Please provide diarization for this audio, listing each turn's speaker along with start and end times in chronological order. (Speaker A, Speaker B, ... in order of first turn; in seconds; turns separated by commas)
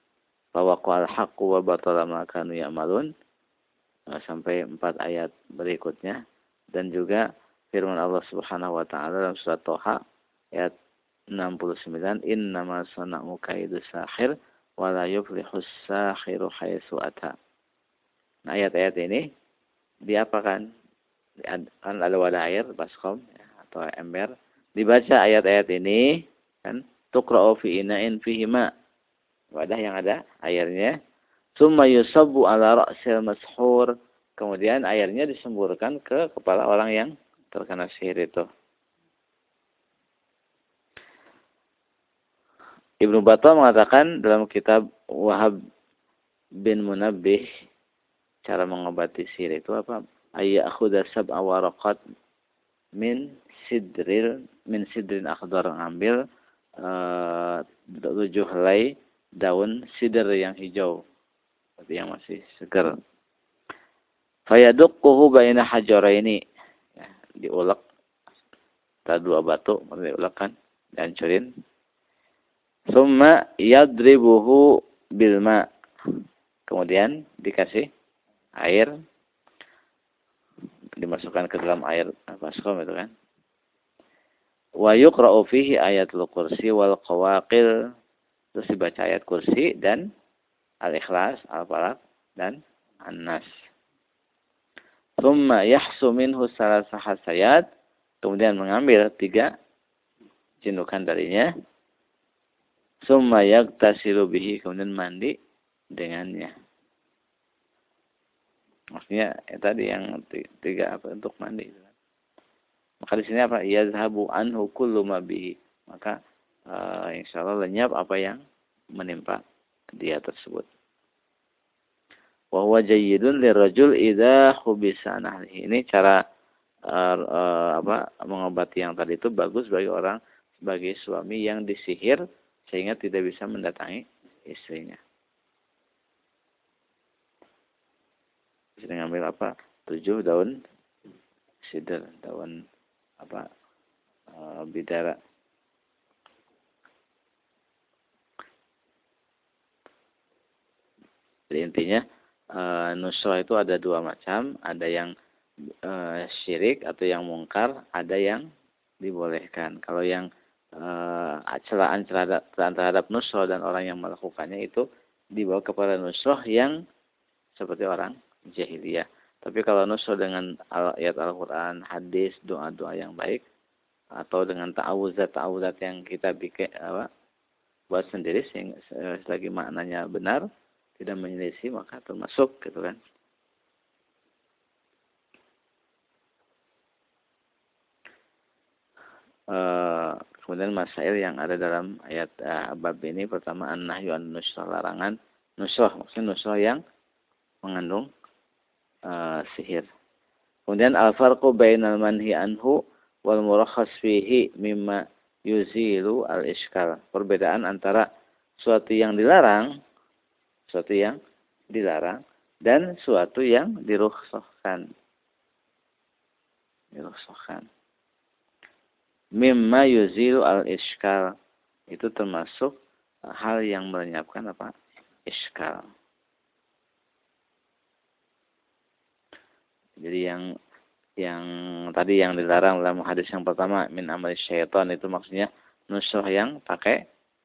Speaker A: 0.5-3.1, Speaker A: 4.1-6.2, Speaker A: 6.7-10.0, Speaker A: 11.3-17.3, Speaker A: 18.5-19.2, Speaker A: 20.1-20.6, Speaker A: 21.4-26.1, Speaker A: 26.6-28.7, Speaker A: 29.5-30.9, Speaker A: 31.6-38.4, Speaker A: 43.0-45.5, Speaker A: 46.6-47.5, Speaker A: 48.4-52.0, Speaker A: 53.0-56.2, Speaker A: 56.8-60.9, Speaker A: 61.8-62.9, Speaker A: 64.5-66.4, Speaker A: 67.0-67.8, Speaker A: 69.1-71.5, Speaker A: 72.9-74.7, Speaker A: 75.2-75.6, Speaker A: 76.7-77.9, Speaker A: 78.6-78.9, Speaker A: 81.0-83.1, Speaker A: 84.8-87.7, Speaker A: 88.5-90.0, Speaker A: 90.8-93.5, Speaker A: 95.2-97.6, Speaker A: 98.2-99.5, Speaker A: 100.6-101.5, Speaker A: 103.0-105.3, Speaker A: 106.0-106.5, Speaker A: 108.9-111.9, Speaker A: 113.0-116.1, Speaker A: 116.7-118.4, Speaker A: 119.0-119.4, Speaker A: 120.0-120.7, Speaker A: 122.5-126.2, Speaker A: 126.9-135.0, Speaker A: 138.8-140.5, Speaker A: 141.6-142.6, Speaker A: 143.2-143.4, Speaker A: 144.3-145.1, Speaker A: 151.5-155.1, Speaker A: 155.8-158.4, Speaker A: 159.0-164.8, Speaker A: 165.3-166.7, Speaker A: 167.6-173.4, Speaker A: 174.2-177.1, Speaker A: 177.9-180.4, Speaker A: 181.0-183.0, Speaker A: 189.5-196.8, Speaker A: 197.6-198.1, Speaker A: 199.1-199.9, Speaker A: 200.7-208.0, Speaker A: 208.6-209.7, Speaker A: 210.7-211.2, Speaker A: 211.7-214.8, Speaker A: 216.9-217.7, Speaker A: 219.4-221.3, Speaker A: 221.9-222.7, Speaker A: 223.3-224.7, Speaker A: 225.3-225.8, Speaker A: 230.0-230.4, Speaker A: 231.2-237.0